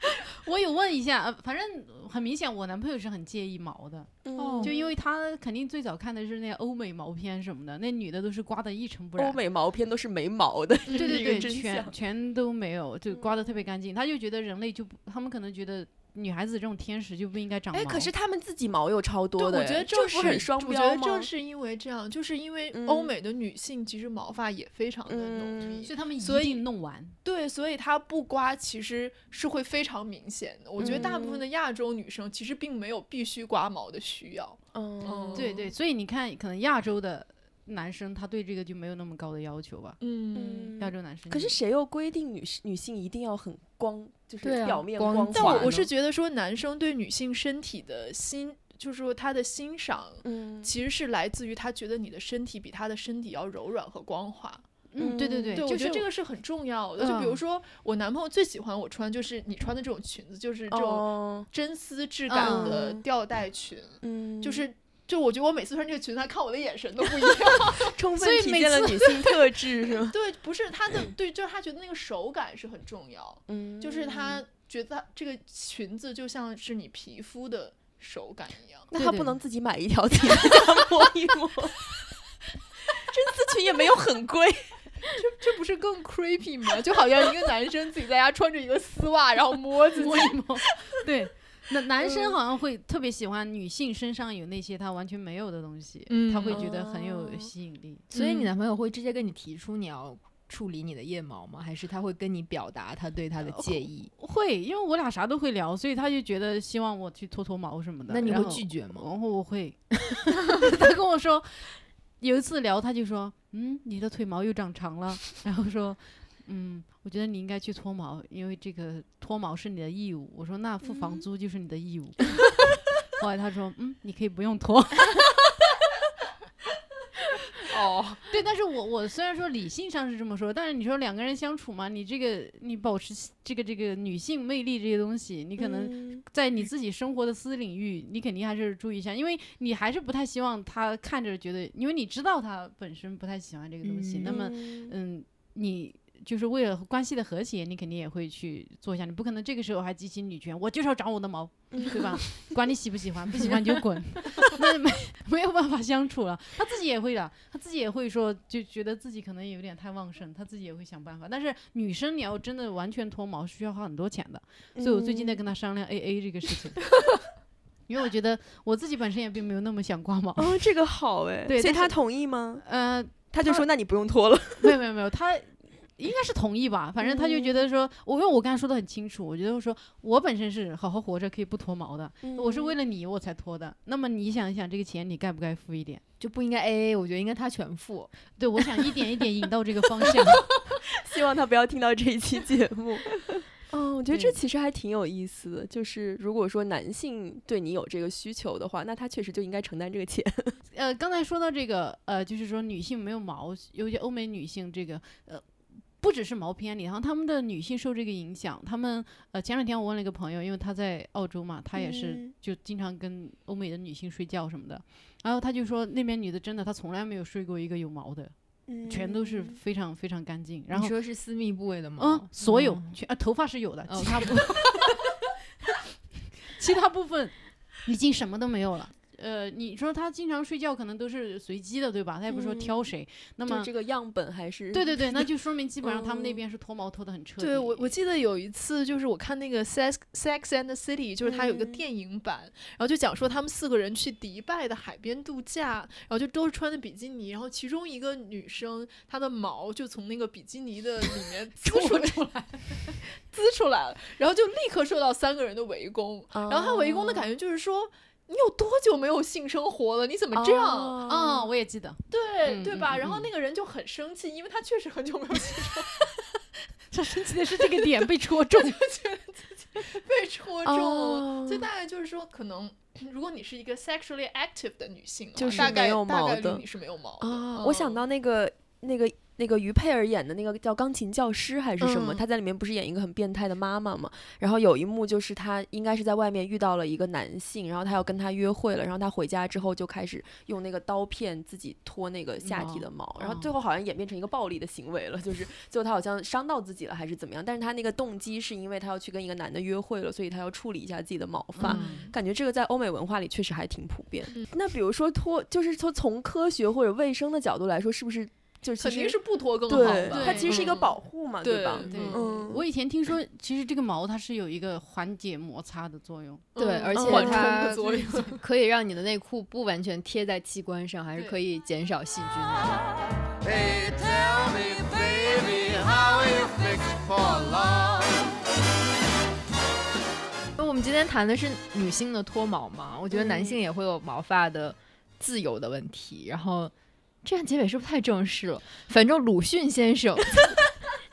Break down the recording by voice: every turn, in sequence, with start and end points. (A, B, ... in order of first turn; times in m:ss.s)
0:00.3-0:09.4 A
0:04.2-0:04.9 B
0:04.4-0:04.7 C
0:09.2-0:11.9 B
0:10.9-0:11.3 D
0:10.9-0:18.1 A
0:13.1-0:13.6 B
0:17.7-0:21.3 B
0:19.4-0:26.6 D
0:22.7-0:23.1 B
0:25.1-0:25.9 B
0:25.8-0:27.2 A
0:27.2-0:35.7 D
0:30.8-0:31.4 B
0:30.8-0:31.1 A
0:34.7-0:35.6 B
0:35.3-0:40.0 A
0:40.0-0:40.7 D
0:40.3-0:45.9 B
0:40.8-0:41.6 A
0:44.4-0:45.7 C
0:45.3-0:54.6 D
0:50.2-0:50.7 B
0:54.9-0:55.7 A
0:55.0-0:56.0 B
0:55.5-1:07.9 D
1:00.7-1:01.5 B
1:02.3-1:03.0 B
1:02.4-1:02.8 A
1:04.0-1:04.6 B
1:07.9-1:10.2 B
1:08.1-1:09.2 A
1:10.1-1:18.9 D
1:13.5-1:14.4 B
1:18.9-1:22.0 B
1:18.9-1:19.4 A
1:22.9-1:25.1 B
1:25.2-1:30.5 D
1:29.9-1:38.1 A
1:36.1-1:36.6 D
1:36.5-1:37.5 B
1:38.1-1:44.1 C
1:38.1-1:38.5 D
1:43.4-2:05.3 A
1:48.1-1:49.1 C
2:00.9-2:01.2 B
2:07.7-2:08.2 C
2:08.3-2:46.8 A
2:15.6-2:16.2 B
2:23.8-2:24.4 C
2:24.2-2:24.9 B
2:31.7-2:32.0 B
2:44.7-2:45.4 B
2:47.9-2:50.7 A
2:50.4-2:52.6 B
2:51.4-2:53.6 A
2:53.3-2:54.8 B
2:54.6-3:06.0 A
2:57.0-2:57.6 B
3:02.2-3:02.7 B
3:06.2-3:08.1 C
3:08.4-3:10.4 A
3:10.8-3:20.6 B
3:14.1-3:14.4 A
3:20.7-3:25.4 A
3:26.0-3:38.3 A
3:31.8-3:32.3 B
3:38.7-3:39.6 B
3:38.8-3:40.9 A
3:40.7-3:42.9 C
3:42.0-3:44.9 A
3:43.9-3:44.4 C
3:46.4-3:53.7 A
3:52.3-3:52.8 B
3:53.4-3:55.0 B
3:54.7-3:57.9 A
3:55.8-3:56.4 B
3:57.4-4:12.2 D
4:01.2-4:01.8 B
4:11.6-4:13.0 A
4:13.0-4:21.0 D
4:16.3-4:17.2 B
4:20.3-4:21.5 B
4:21.0-4:23.3 A
4:22.1-4:25.9 D
4:26.9-4:28.8 A
4:28.5-4:38.0 D
4:30.6-4:31.7 B
4:35.3-4:36.7 B
4:37.2-5:12.6 B
4:41.8-4:42.2 D
4:52.4-4:53.5 A
5:01.5-5:02.1 A
5:01.6-5:02.1 D
5:08.8-5:12.2 D
5:09.7-5:10.8 A
5:11.9-5:16.4 A
5:16.5-5:18.4 D
5:16.6-5:22.9 C
5:17.0-5:17.6 B
5:17.1-5:18.3 A
5:23.4-5:28.2 E
5:30.6-5:36.7 C
5:33.1-5:33.5 B
5:37.2-5:40.7 C